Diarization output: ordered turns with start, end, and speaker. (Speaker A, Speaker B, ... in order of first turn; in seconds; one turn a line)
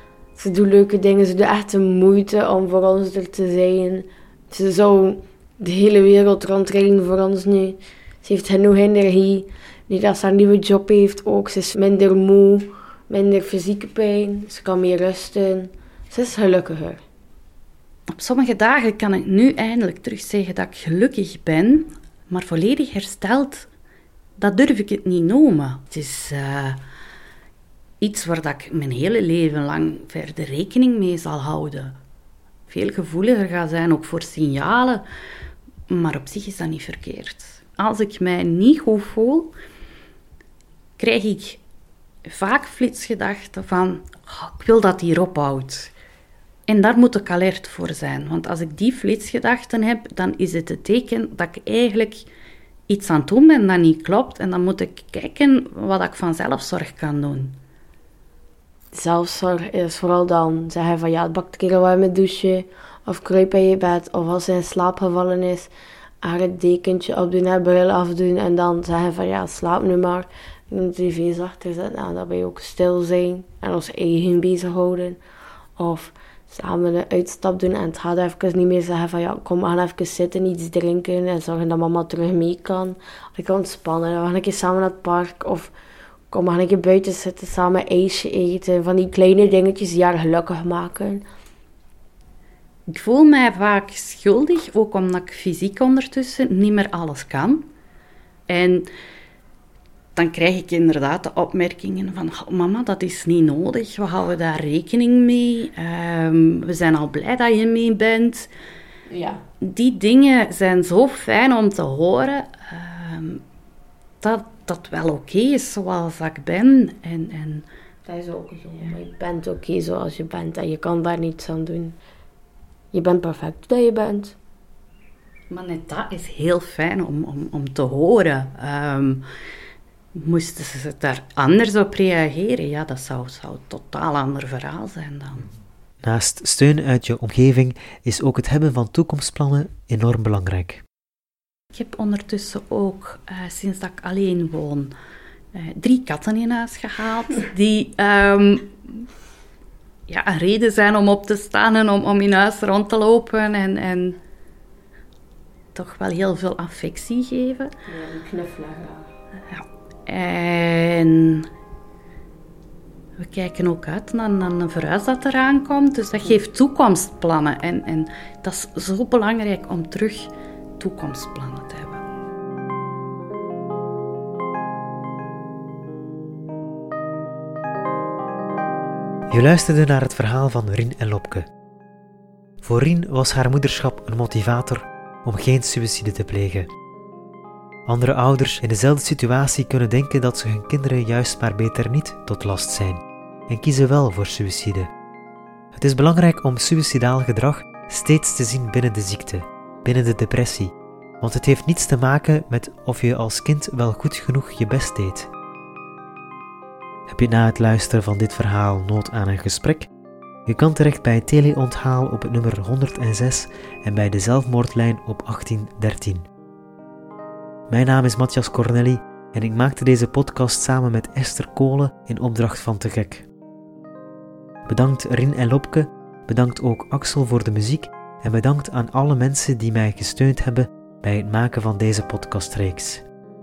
Speaker A: 0.3-17.0
Speaker B: 18.1-23.7
Speaker B: 24.4-26.8
Speaker B: 28.0-32.0
Speaker B: 32.7-35.0
Speaker B: 35.9-39.5
Speaker B: 41.0-41.6
Speaker B: 42.2-45.9
Speaker B: 46.7-52.3
Speaker B: 52.9-57.6
Speaker A: 58.9-65.7
Speaker A: 66.2-75.2
Speaker A: 75.8-85.7
Speaker A: 86.3-91.2
Speaker B: 92.9-97.7
Speaker B: 98.5-98.9
Speaker B: 100.2-108.5
Speaker A: 109.1-109.4
Speaker B: 109.6-113.4
Speaker B: 114.2-117.7
Speaker A: 118.0-122.0
Speaker A: 122.9-124.3
Speaker B: 125.5-129.2
Speaker B: 130.1-135.5
Speaker C: 136.0-140.8
Speaker B: 141.7-144.9
Speaker B: 145.5-149.1
Speaker B: 150.1-154.2
Speaker B: 155.7-157.7
Speaker A: 157.9-159.1
Speaker B: 159.5-161.5
Speaker B: 163.2-172.1
Speaker C: 179.3-181.4
Speaker C: 182.6-186.7
Speaker C: 187.8-194.9
Speaker C: 195.7-205.3
Speaker C: 207.1-209.9
Speaker C: 210.4-216.2
Speaker C: 217.7-223.3
Speaker C: 224.7-233.0